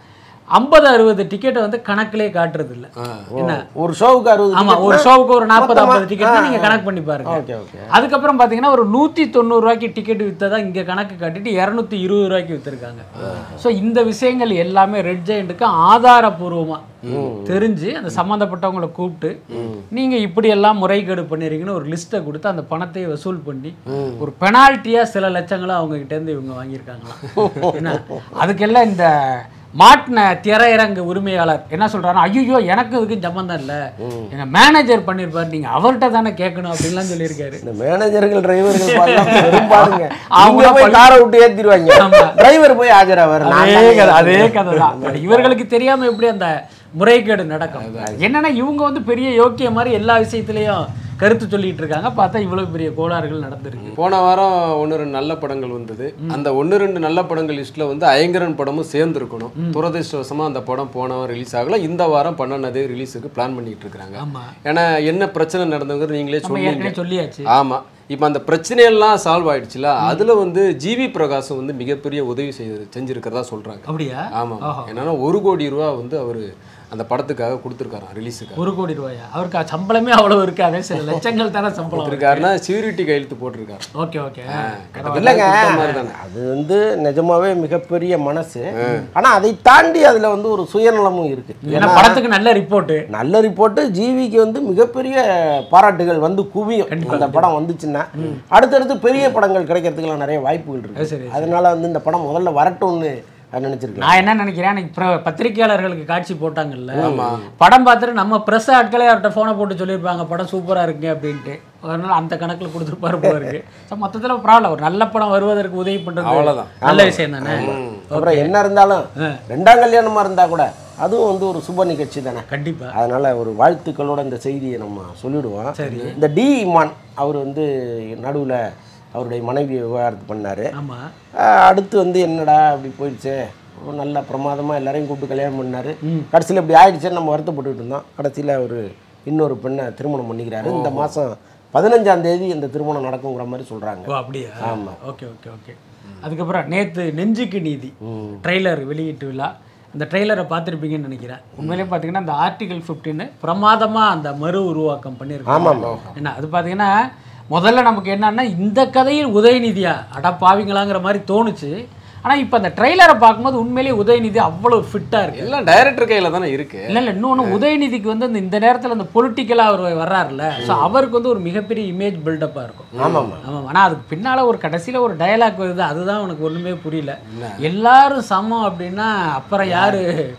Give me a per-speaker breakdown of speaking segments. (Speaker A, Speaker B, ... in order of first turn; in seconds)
Speaker A: 0.6-3.6, 4.5-7.4, 7.9-16.8, 17.4-19.3, 19.9-33.8, 34.3-37.6, 38.7-41.2, 41.9-42.3, 43.4-54.0, 59.5-59.8, 64.2-64.5, 66.4-67.5, 70.0-70.3, 73.9-74.9, 78.6-82.5, 84.0-86.0, 91.6-93.0, 96.9-97.5, 101.0-101.5, 104.0-118.5, 122.5-122.9, 125.8-126.1, 130.7-131.1, 144.1-156.9, 157.5-161.7, 162.2-165.6, 166.9-172.9, 173.4-180.1
Speaker B: 3.3-7.9, 13.2-13.6, 17.1-17.6, 23.9-24.2, 27.4-28.1, 34.0-34.3, 37.6-45.6, 85.1-92.2, 93.1-104.3, 106.9-107.4, 116.8-128.6, 129.1-130.7, 131.4-144.1, 144.6-145.0, 148.0-148.4, 155.5-155.9, 170.6-170.9, 173.0-173.4, 179.6-180.0
Speaker C: 13.2-13.4, 17.0-17.3, 19.5-19.8, 23.9-24.2, 47.7-48.1, 53.8-67.0, 67.5-78.6, 81.9-83.8, 84.6-86.2, 88.8-89.0, 107.0-107.5, 116.2-116.7, 117.5-118.0, 125.8-126.1, 140.6-141.1, 151.6-151.9, 155.8-156.1, 165.3-166.8, 172.9-173.3, 177.3-177.6